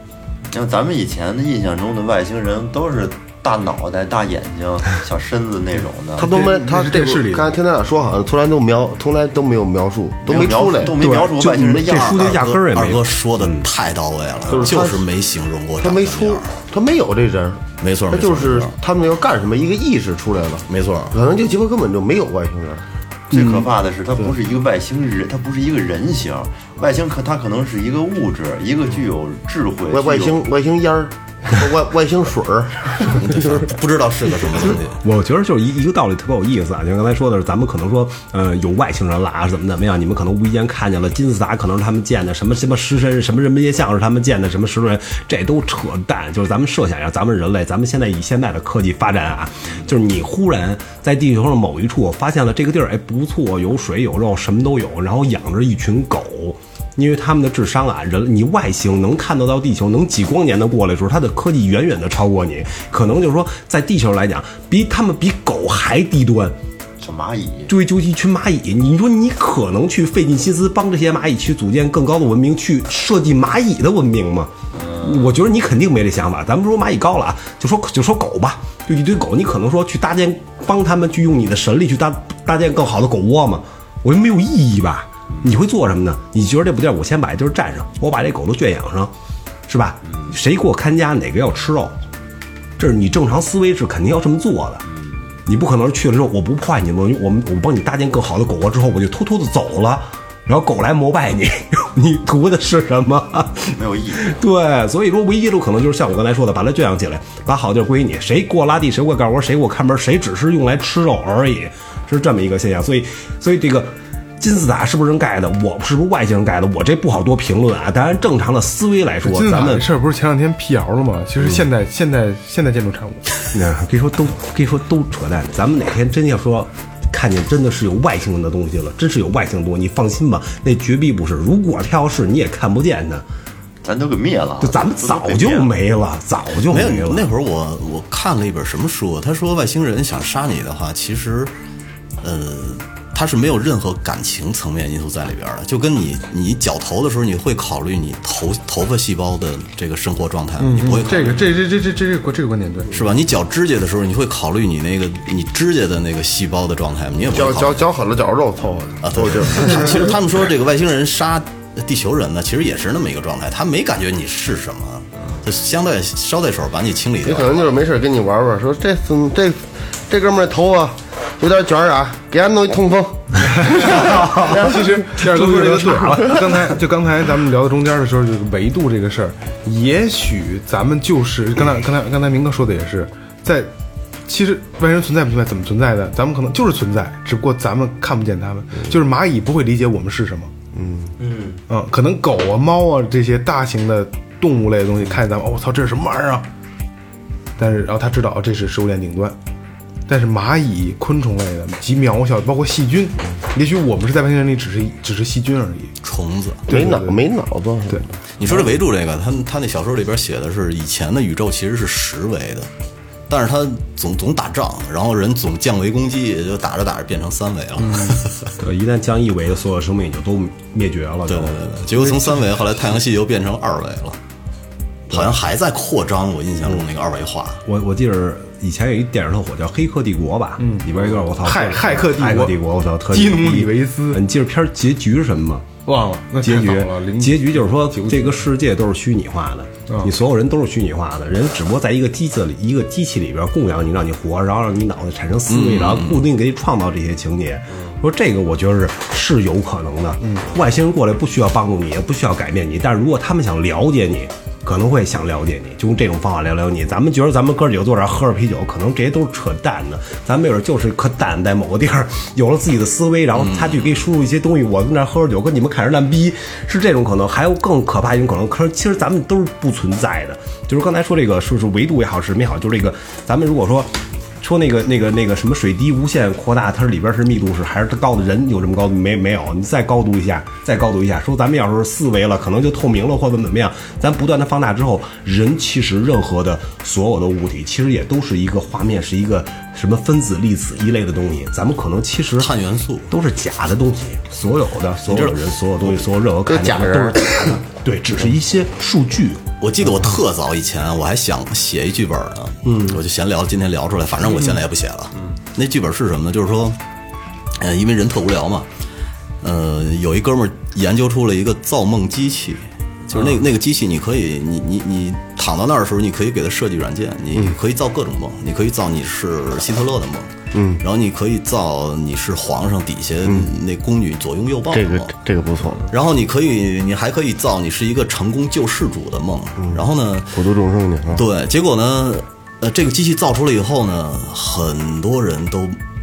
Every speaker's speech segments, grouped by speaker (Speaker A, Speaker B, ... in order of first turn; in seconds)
Speaker A: 0.5-6.3, 10.2-12.5, 23.3-30.4, 67.0-67.7, 74.7-75.3, 90.0-90.4, 94.8-95.4, 103.7-104.4, 133.8-135.7, 191.2-191.6
Speaker B: 6.2-11.0, 14.5-15.1, 15.8-22.9, 29.9-33.6, 157.3-160.2, 167.2-175.3, 175.9-176.3, 190.7-191.1, 206.7-208.1, 296.4-297.6, 320.5-320.8, 323.2-323.5, 324.7-325.8, 329.6-331.2
Speaker C: 6.2-7.5, 119.2-123.3, 150.6-152.9, 173.6-183.7, 184.3-190.5, 191.7-196.4, 197.6-199.4, 200.1-205.9, 206.7-207.2, 230.6-234.2, 235.8-238.5, 239.9-240.1, 250.2-250.4
Speaker D: 11.0-13.7, 23.3-23.6, 35.0-66.5, 67.7-89.1, 89.7-92.0, 92.8-94.8, 95.5-119.8, 123.5-133.2, 134.6-137.3, 173.9-176.6, 218.6-222.5, 227.6-235.7, 236.4-292.6, 293.1-299.4, 302.6-303.0
Speaker E: 11.9-16.5, 17.8-18.7, 20.7-21.1, 33.1-35.0, 136.7-141.5, 142.2-151.6, 152.9-157.9, 159.0-167.6, 206.0-206.6, 208.4-212.7, 213.3-218.5, 221.3-224.2, 225.1-227.6, 245.5-246.3, 263.3-264.1, 292.4-293.1, 295.0-296.1, 299.6-306.8, 307.6-308.7, 309.4-325.1, 325.9-330.4, 331.1-335.8